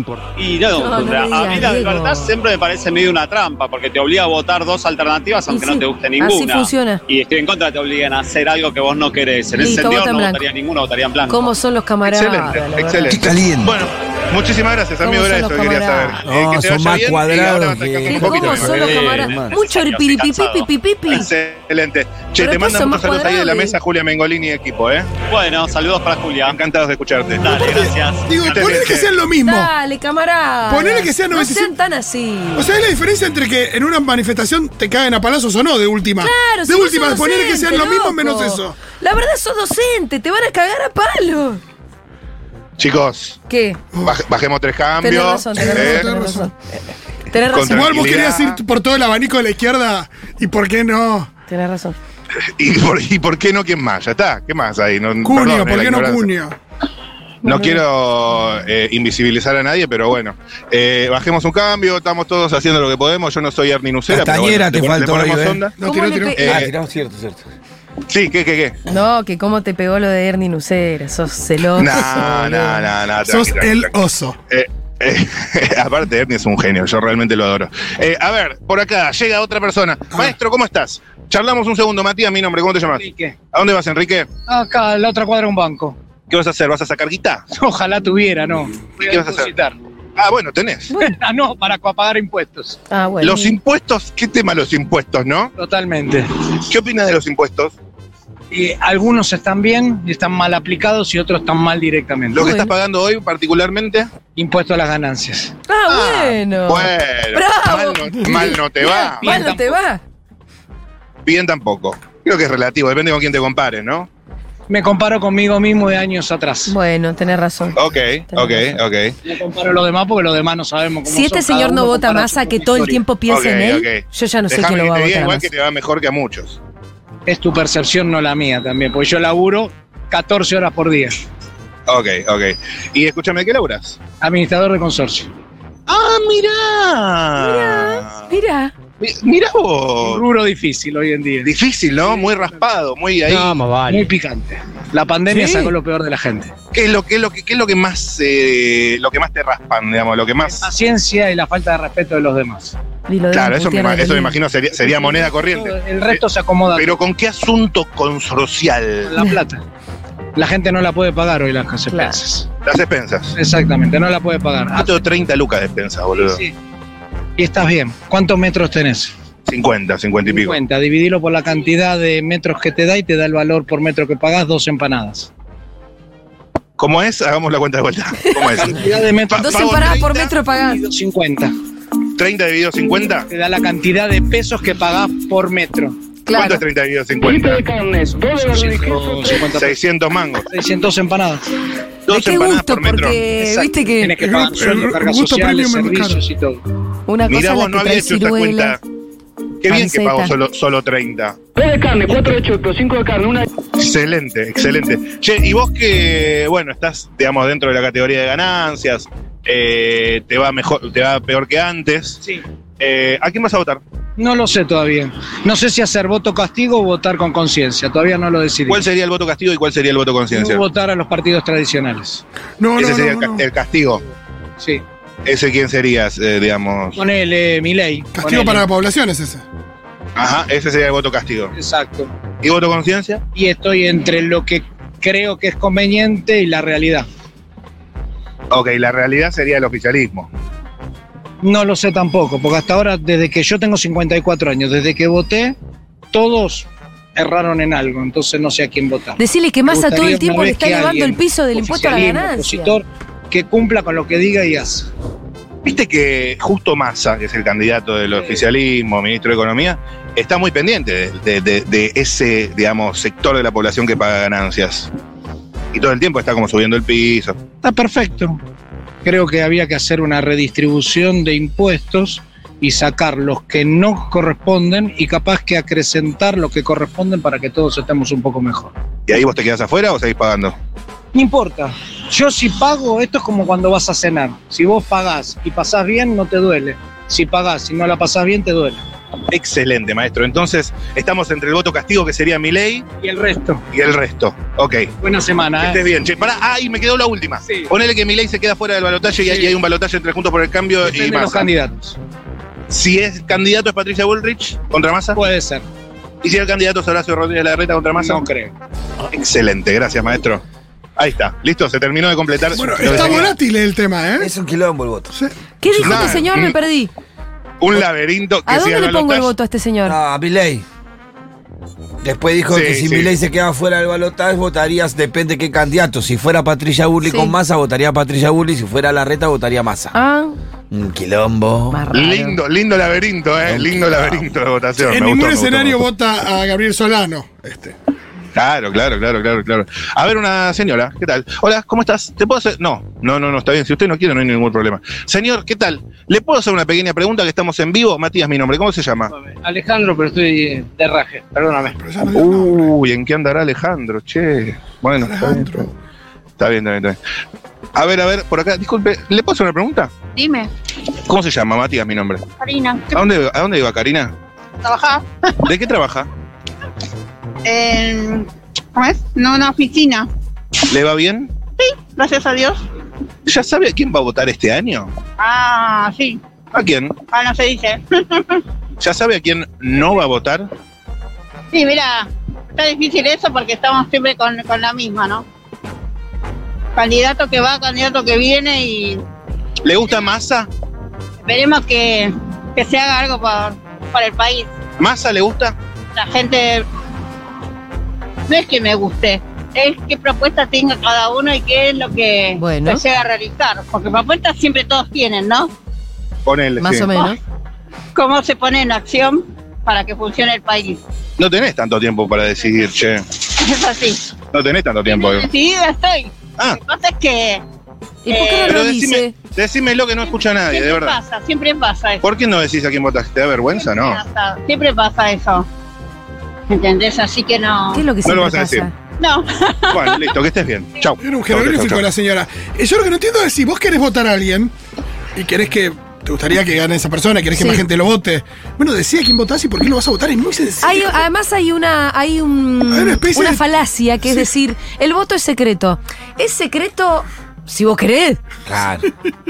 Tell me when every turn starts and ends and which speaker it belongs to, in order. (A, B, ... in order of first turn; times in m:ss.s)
0:00.4-0:11.5 A
0:00.7-0:02.3 B
0:05.5-0:07.0 B
0:09.6-0:10.4 B
0:11.3-0:13.2 B
0:12.0-0:19.1 C
0:13.1-0:13.8 D
0:15.0-0:16.2 B
0:16.2-0:19.6 D
0:18.1-0:21.3 B
0:18.8-0:20.7 A
0:21.1-0:25.1 C
0:22.4-0:23.8 B
0:25.3-0:26.6 A
0:26.4-0:27.6 C
0:27.4-0:28.9 A
0:27.5-0:29.7 E
0:28.5-0:29.1 C
0:29.4-0:32.7 B
0:30.7-0:31.7 E
0:32.6-0:38.8 E
0:36.2-0:41.6 B
0:42.8-0:43.4 C
0:43.5-0:43.8 B
0:43.9-0:44.2 E
0:44.0-0:46.1 C
0:45.0-0:46.5 B
0:45.5-0:46.5 E
0:47.3-0:48.0 B
0:47.5-0:48.6 C
0:47.6-0:51.3 E
0:51.5-0:52.0 B
0:52.6-0:56.3 C
0:55.2-0:56.6 E
0:57.4-0:57.8 B
0:57.4-1:05.7 C
1:04.1-1:05.6 D
1:05.8-1:06.6 E
1:05.8-1:06.6 B
1:06.4-1:06.7 C
1:06.4-1:07.4 D
1:08.1-1:08.8 C
1:08.9-1:12.9 B
1:11.8-1:13.9 C
1:13.2-1:14.4 E
1:14.5-1:24.3 C
1:22.9-1:23.4 F
1:24.5-1:26.0 F
1:26.3-1:27.4 C
1:27.5-1:29.8 F
1:29.0-1:29.6 C
1:30.2-1:30.9 C
1:30.9-1:31.2 B
1:31.0-1:32.8 F
1:32.9-1:33.6 B
1:33.2-1:35.5 C
1:35.6-1:36.3 F
1:36.7-1:37.7 C
1:38.5-1:42.5 F
1:42.3-1:44.1 C
1:42.4-1:42.7 B
1:44.4-1:45.5 F
1:45.7-1:50.0 B
1:45.9-1:49.4 C
1:49.2-1:49.8 F
1:51.2-1:54.1 C
1:54.7-1:56.7 F
1:56.7-1:58.8 B
1:57.7-1:59.1 C
1:59.2-2:03.0 F
2:01.1-2:05.5 B
2:03.3-2:06.6 C
2:07.3-2:11.2 F
2:11.9-2:14.0 C
2:14.2-2:15.3 F
2:15.9-2:18.3 C
2:17.4-2:18.7 B
2:19.0-2:20.2 C
2:20.0-2:22.6 F
2:21.4-2:23.6 C
2:23.8-2:26.5 F
2:25.3-2:25.7 B
2:26.7-2:30.7 C
2:30.5-2:32.8 F
2:33.1-2:34.4 B
2:33.3-2:36.2 C
2:34.8-2:37.0 F
2:36.7-2:39.2 C
2:39.1-2:39.6 F
2:40.4-2:42.5 F
2:41.9-2:42.2 B
2:42.6-2:43.4 C
2:43.4-2:45.0 F
2:44.7-2:46.4 C
2:46.2-2:46.5 F
2:47.4-2:49.1 F
2:49.5-2:50.6 C
2:50.2-2:55.3 F
2:56.8-3:00.3 C
2:58.6-2:59.6 F
2:59.4-3:00.8 B
3:00.7-3:01.5 F
3:02.2-3:03.3 C
3:03.3-3:06.0 F
3:06.3-3:06.6 B
3:06.3-3:07.6 C
3:07.2-3:09.4 G
3:08.4-3:09.8 F
3:09.6-3:10.4 C
3:10.5-3:11.4 F
3:12.1-3:13.2 C
3:12.1-3:14.2 B
3:13.4-3:16.6 F
3:14.2-3:16.2 E
3:17.1-3:18.8 B
3:17.3-3:18.8 C
3:19.6-3:21.4 C
3:19.7-3:20.4 B
3:21.6-3:23.4 G
3:23.8-3:32.2 C
3:32.8-3:33.8 C
3:34.2-3:38.8 F
3:38.7-3:40.6 C
3:40.3-3:42.2 F
3:42.6-3:43.4 E
3:42.8-3:44.0 C
3:44.6-3:44.8 F
3:45.2-3:47.0 C
3:47.0-3:48.7 F
3:48.1-3:49.4 E
3:50.2-3:51.5 C
3:51.5-3:52.1 F
3:52.4-3:53.2 C
3:53.4-3:57.1 F
3:58.5-4:00.3 C
4:01.4-4:05.6 F
4:06.1-4:14.9 F
4:09.2-4:12.7 B
4:15.6-4:24.9 C
4:18.1-4:18.4 F
4:25.7-4:27.5 C
4:27.6-4:28.4 F
4:29.0-4:38.7 F
4:39.1-4:40.6 C
4:41.1-4:48.8 F
4:49.3-4:52.9 C
4:53.0-4:53.6 F
4:53.7-4:54.9 C
4:55.0-4:55.9 F
4:55.6-5:01.5 C
4:57.4-4:57.7 F
4:59.2-4:59.6 F
5:00.8-5:02.0 F
5:02.7-5:05.2 C
5:05.1-5:05.6 F
5:06.2-5:08.2 C
5:08.0-5:08.5 F
5:09.1-5:10.4 C
5:11.0-5:13.4 C
5:12.5-5:14.3 E
5:12.9-5:13.2 D
5:14.2-5:15.1 D
5:15.6-5:16.9 B
5:15.8-5:16.6 C
5:17.6-5:19.3 C
5:18.5-5:20.0 B
5:19.8-5:20.6 D
5:22.0-5:29.9 D
5:22.5-5:23.1 C
5:27.0-5:27.4 B
5:29.9-5:30.4 B
5:30.7-5:31.8 D
5:31.7-5:32.4 B
5:31.9-5:35.9 C
5:33.4-5:34.3 D
5:34.8-5:37.8 E
5:38.4-5:49.1 C
5:49.2-5:51.7 F
5:51.7-5:52.7 E
5:52.1-5:55.6 C
5:55.0-5:55.7 E
5:56.4-5:57.0 C
5:57.7-5:59.9 C
6:00.2-6:00.4 H
6:01.1-6:02.2 C
6:02.4-6:02.9 H
6:02.9-6:04.1 C
6:04.6-6:05.0 H
6:05.4-6:06.1 C
6:07.4-6:10.1 H
6:10.7-6:11.3 C
6:11.6-6:12.6 H
6:13.3-6:14.9 C
6:15.2-6:16.2 H
6:16.5-6:17.0 C
6:17.1-6:18.4 H
6:18.8-6:20.5 C
6:21.5-6:25.2 H
6:26.8-6:29.0 H
6:29.6-6:30.5 C
6:31.3-6:34.5 H
6:34.8-6:35.6 C
6:36.0-6:36.6 H
6:38.3-6:45.5 H
6:42.4-6:42.8 B
6:46.2-6:46.9 C
6:46.6-6:47.2 B
6:48.0-6:50.8 H
6:51.2-6:53.0 C
6:53.4-6:54.1 H
6:54.3-6:55.3 C
6:54.9-6:57.4 H
6:58.0-6:59.1 B
6:58.1-6:58.6 H
6:58.4-7:01.0 C
7:00.4-7:02.0 H
7:02.0-7:04.0 C
7:03.5-7:05.4 H
7:06.5-7:07.9 H
7:07.7-7:08.7 B
7:08.0-7:08.7 C
7:09.0-7:10.1 H
7:09.7-7:11.9 C
7:11.0-7:14.5 E
7:15.2-7:21.1 E
7:17.4-7:17.6 B
7:20.6-7:28.2 B
7:22.7-7:23.4 E
7:28.4-7:28.9 D